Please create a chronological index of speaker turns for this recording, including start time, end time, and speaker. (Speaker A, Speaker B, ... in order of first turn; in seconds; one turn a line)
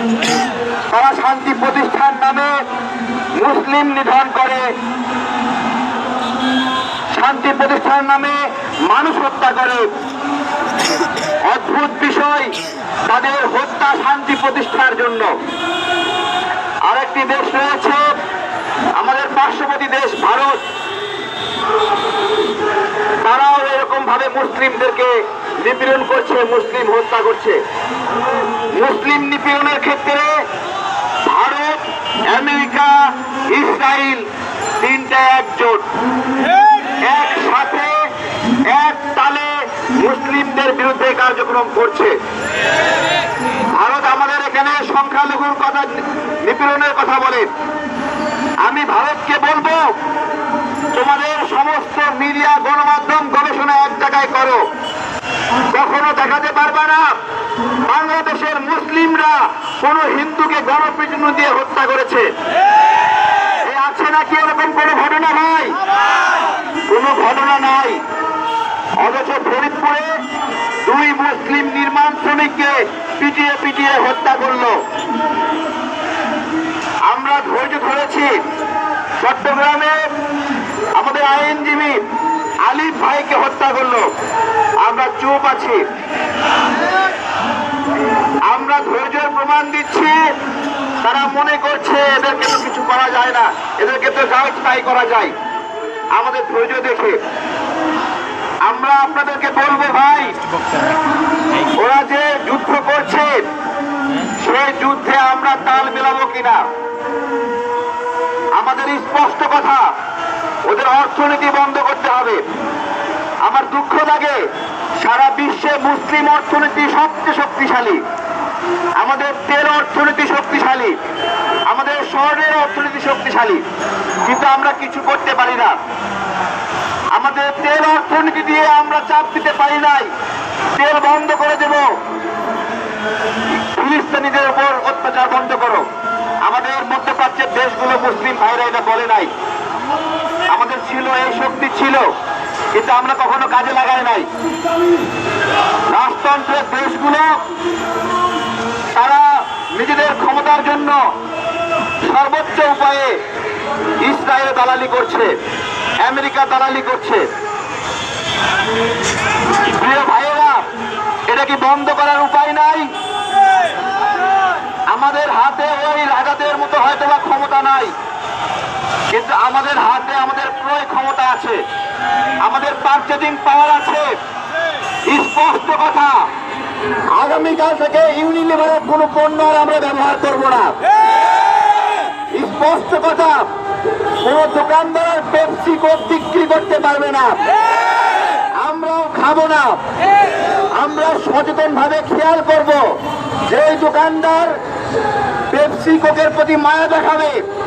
Speaker A: 0.9-2.6
Speaker A: 3.4-4.7
Speaker A: 7.1-9.9
Speaker A: 11.5-12.5
Speaker A: 13.1-15.3
Speaker A: 16.9-18.1
Speaker A: 19.0-20.6
Speaker A: 23.2-27.6
Speaker A: 28.8-30.4
Speaker A: 31.3-33.0
Speaker A: 33.5-34.3
Speaker A: 34.8-35.8
Speaker A: 37.0-38.0
Speaker A: 38.7-42.1
Speaker A: 43.8-47.5
Speaker A: 48.6-49.9
Speaker A: 50.9-54.7
Speaker A: 55.7-57.1
Speaker A: 57.9-62.3
Speaker A: 63.6-65.8
Speaker A: 66.9-68.0
Speaker A: 69.0-70.2
Speaker A: 70.8-74.8
Speaker A: 77.1-78.4
Speaker A: 79.2-80.0
Speaker A: 81.0-82.0
Speaker A: 82.6-84.1
Speaker A: 84.8-85.8
Speaker A: 88.5-90.2
Speaker A: 91.0-95.3
Speaker A: 96.1-97.2
Speaker A: 98.7-100.4
Speaker A: 101.8-103.5
Speaker A: 104.4-106.6
Speaker A: 108.6-109.8
Speaker A: 110.7-112.4
Speaker A: 113.5-114.4
Speaker A: 115.0-118.0
Speaker A: 119.0-121.0
Speaker A: 121.7-123.6
Speaker A: 124.2-125.8
Speaker A: 127.2-130.1
Speaker A: 130.8-131.8
Speaker A: 133.7-135.8
Speaker A: 136.4-139.3
Speaker A: 140.5-142.1
Speaker A: 142.7-144.3
Speaker A: 145.9-147.4
Speaker A: 148.9-151.0
Speaker A: 152.1-153.2
Speaker A: 154.0-155.3
Speaker A: 156.0-157.3
Speaker A: 159.7-160.6
Speaker A: 161.3-162.9
Speaker A: 164.9-167.9
Speaker A: 169.1-171.6
Speaker A: 172.4-174.1
Speaker A: 175.1-176.2
Speaker A: 177.1-180.7
Speaker A: 182.3-183.4
Speaker A: 184.2-187.4
Speaker A: 188.6-189.8
Speaker A: 190.8-192.8
Speaker A: 193.5-194.6
Speaker A: 195.5-197.4